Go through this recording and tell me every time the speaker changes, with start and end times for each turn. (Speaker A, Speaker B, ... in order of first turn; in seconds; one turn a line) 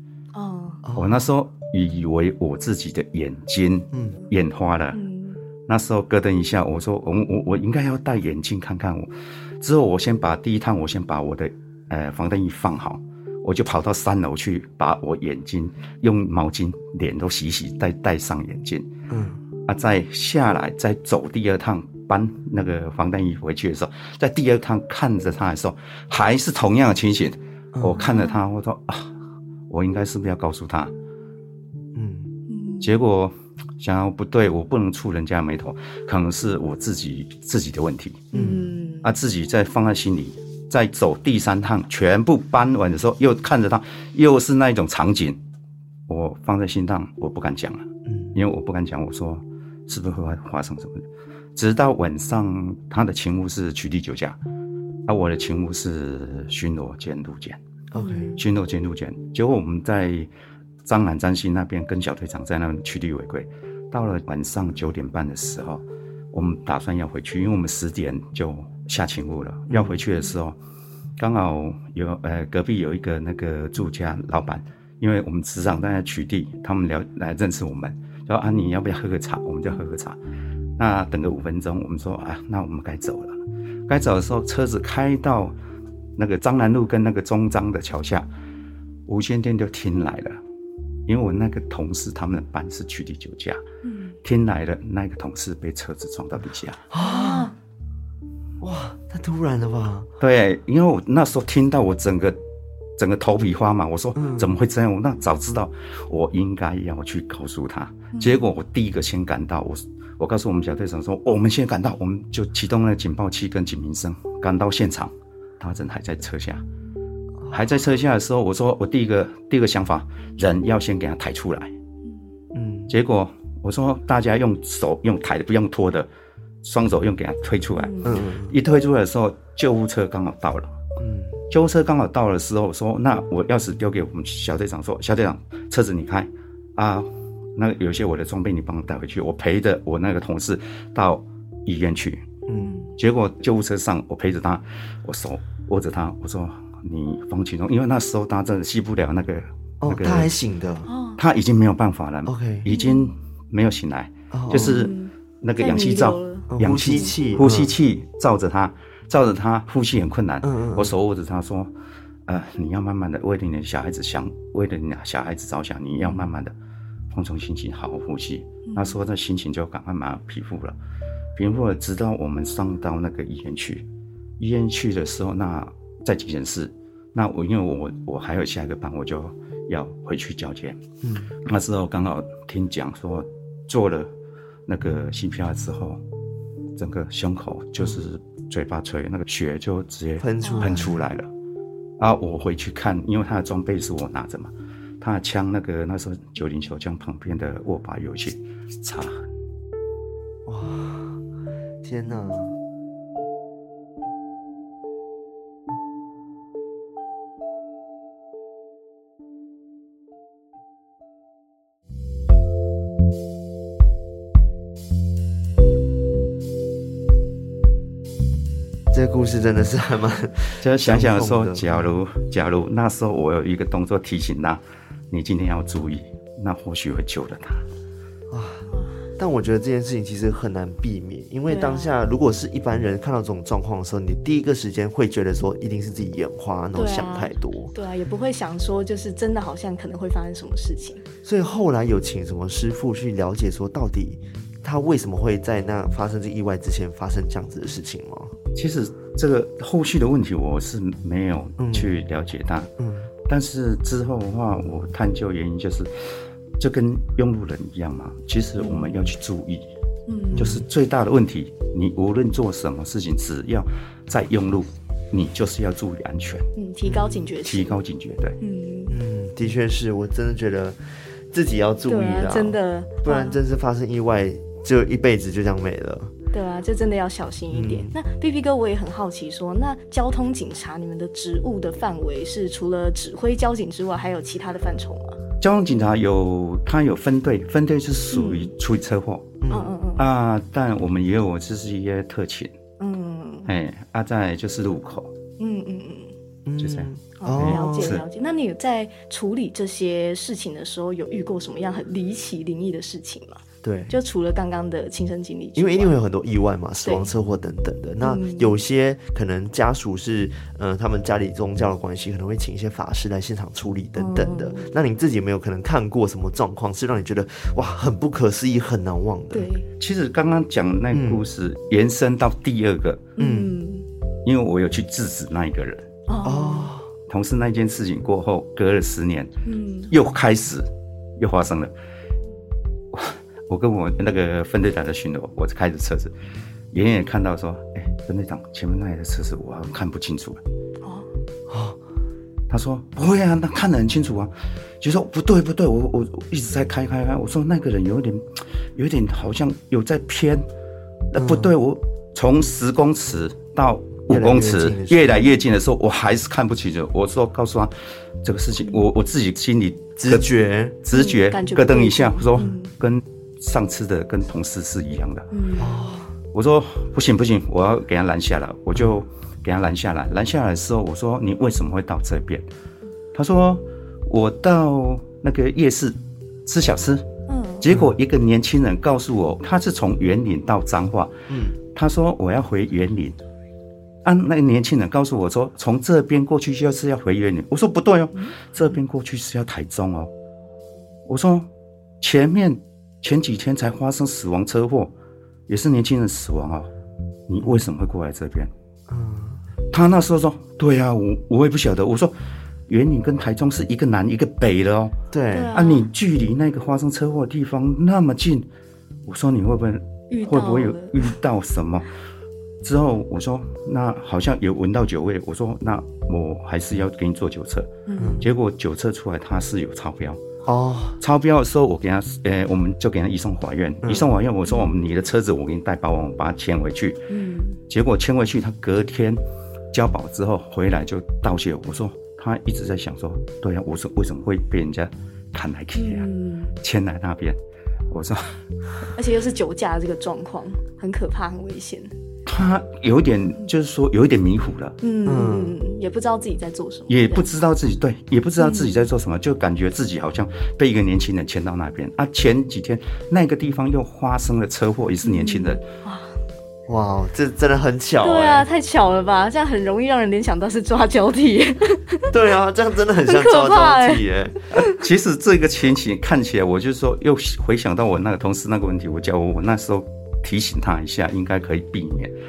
Speaker A: 0.3-0.8
Speaker B: 0.8-1.3
Speaker C: 0.9-5.0
Speaker B: 3.9-4.2
Speaker A: 4.9-5.4
Speaker C: 5.7-18.9
Speaker B: 19.1-19.4
Speaker C: 19.7-29.1
Speaker B: 27.7-28.1
Speaker C: 29.7-30.9
Speaker B: 31.9-32.3
Speaker A: 32.5-32.9
Speaker C: 32.8-38.4
Speaker B: 38.3-38.7
Speaker A: 38.3-39.1
Speaker C: 39.0-45.4
Speaker C: 46.1-51.0
Speaker B: 48.1-48.3
Speaker C: 51.5-54.4
Speaker C: 55.1-57.6
Speaker B: 57.9-58.3
Speaker A: 58.0-58.4
Speaker C: 58.4-60.3
Speaker C: 60.8-70.5
Speaker B: 69.7-70.0
Speaker C: 71.2-80.2
Speaker C: 80.8-85.5
Speaker C: 86.2-88.3
Speaker C: 89.1-90.4
Speaker C: 91.1-93.6
Speaker A: 93.8-94.1
Speaker C: 94.2-96.8
Speaker B: 96.9-97.5
Speaker A: 97.0-97.5
Speaker B: 98.6-100.1
Speaker C: 100.2-102.3
Speaker C: 103.0-116.6
Speaker B: 104.2-104.5
Speaker C: 117.5-121.7
Speaker B: 122.5-122.9
Speaker C: 122.9-126.1
Speaker C: 126.6-130.7
Speaker A: 127.8-128.1
Speaker B: 128.0-128.6
Speaker B: 131.0-131.4
Speaker C: 131.5-142.2
Speaker B: 142.5-142.9
Speaker C: 143.0-150.3
Speaker B: 149.8-150.9
Speaker A: 150.8-151.2
Speaker C: 151.2-161.7
Speaker B: 152.2-152.7
Speaker A: 152.7-153.1
Speaker B: 154.3-154.9
Speaker A: 154.5-157.1
Speaker B: 156.5-157.7
Speaker B: 160.4-160.9
Speaker C: 162.2-166.5
Speaker C: 167.1-170.8
Speaker A: 168.7-169.0
Speaker C: 171.3-173.8
Speaker C: 174.4-180.8
Speaker B: 181.0-181.3
Speaker C: 181.4-184.1
Speaker C: 184.7-186.0
Speaker C: 186.8-191.3
Speaker B: 190.2-191.0
Speaker A: 190.4-190.8
Speaker C: 192.0-199.2
Speaker B: 200.4-201.2
Speaker B: 201.8-202.5
Speaker B: 218.9-221.9
Speaker C: 220.6-227.6
Speaker B: 228.3-237.7
Speaker A: 231.5-231.9
Speaker A: 236.7-241.0
Speaker B: 241.2-248.3
Speaker C: 248.5-252.7
Speaker B: 251.6-251.9
Speaker B: 252.8-253.1
Speaker C: 253.3-255.9
Speaker C: 256.6-259.6
Speaker A: 258.6-258.9
Speaker A: 260.1-260.6
Speaker B: 260.3-260.6
Speaker C: 260.4-266.5
Speaker A: 266.6-267.8
Speaker B: 266.9-267.3
Speaker C: 267.4-268.4
Speaker A: 268.4-269.0
Speaker B: 268.9-270.8
Speaker B: 271.3-276.1
Speaker A: 271.9-273.4
Speaker A: 276.3-285.2
Speaker B: 277.5-277.9
Speaker C: 285.4-289.4
Speaker A: 288.1-288.5
Speaker B: 289.4-289.7
Speaker A: 289.5-290.1
Speaker C: 290.0-292.6
Speaker A: 292.8-293.5
Speaker C: 293.4-295.1
Speaker A: 295.4-296.1
Speaker B: 296.4-298.0
Speaker C: 296.6-298.0
Speaker A: 297.2-306.0
Speaker B: 303.6-303.9
Speaker B: 305.6-319.5
Speaker A: 308.0-308.6
Speaker A: 313.9-314.7
Speaker A: 319.3-319.6
Speaker C: 319.8-323.1
Speaker B: 320.9-321.2
Speaker A: 323.2-323.9
Speaker B: 323.2-323.5
Speaker C: 324.2-325.9
Speaker A: 326.1-326.7
Speaker B: 326.2-326.9
Speaker C: 327.1-329.3
Speaker A: 329.4-329.9
Speaker C: 329.9-330.7
Speaker C: 331.2-331.7
Speaker C: 332.9-336.1
Speaker C: 336.7-340.4
Speaker B: 341.5-341.8
Speaker C: 342.5-350.4
Speaker C: 351.1-360.3
Speaker B: 351.1-351.5
Speaker B: 354.1-355.3
Speaker B: 360.0-360.8
Speaker C: 360.8-365.3
Speaker A: 360.9-362.7
Speaker A: 365.3-365.8
Speaker B: 365.6-366.1
Speaker C: 366.3-372.4
Speaker C: 373.1-377.1
Speaker A: 377.3-377.6
Speaker C: 377.6-383.2
Speaker B: 377.7-377.9
Speaker B: 381.3-381.6
Speaker C: 384.0-390.1
Speaker C: 391.1-391.5
Speaker C: 392.0-394.9
Speaker C: 395.5-396.7
Speaker C: 397.3-398.5
Speaker B: 398.9-399.4
Speaker C: 399.7-402.1
Speaker C: 402.7-404.9
Speaker B: 405.1-405.6
Speaker A: 405.3-405.9
Speaker C: 405.5-408.5
Speaker C: 409.1-411.9
Speaker A: 410.1-411.1
Speaker C: 412.6-420.2
Speaker A: 417.9-418.2
Speaker B: 418.0-418.3
Speaker B: 420.4-421.0
Speaker C: 421.0-427.0
Speaker B: 423.8-424.1
Speaker A: 424.5-424.7
Speaker A: 427.1-427.6
Speaker C: 427.7-429.2
Speaker C: 429.7-436.1
Speaker A: 435.8-436.5
Speaker C: 436.6-437.4
Speaker C: 437.9-438.4
Speaker A: 438.9-441.9
Speaker C: 442.2-444.8
Speaker A: 444.8-447.3
Speaker B: 445.0-445.6
Speaker C: 446.9-455.6
Speaker A: 448.4-448.8
Speaker A: 455.0-456.1
Speaker B: 456.7-458.5
Speaker A: 458.0-462.1
Speaker B: 462.1-464.4
Speaker A: 463.1-464.7
Speaker C: 464.5-472.1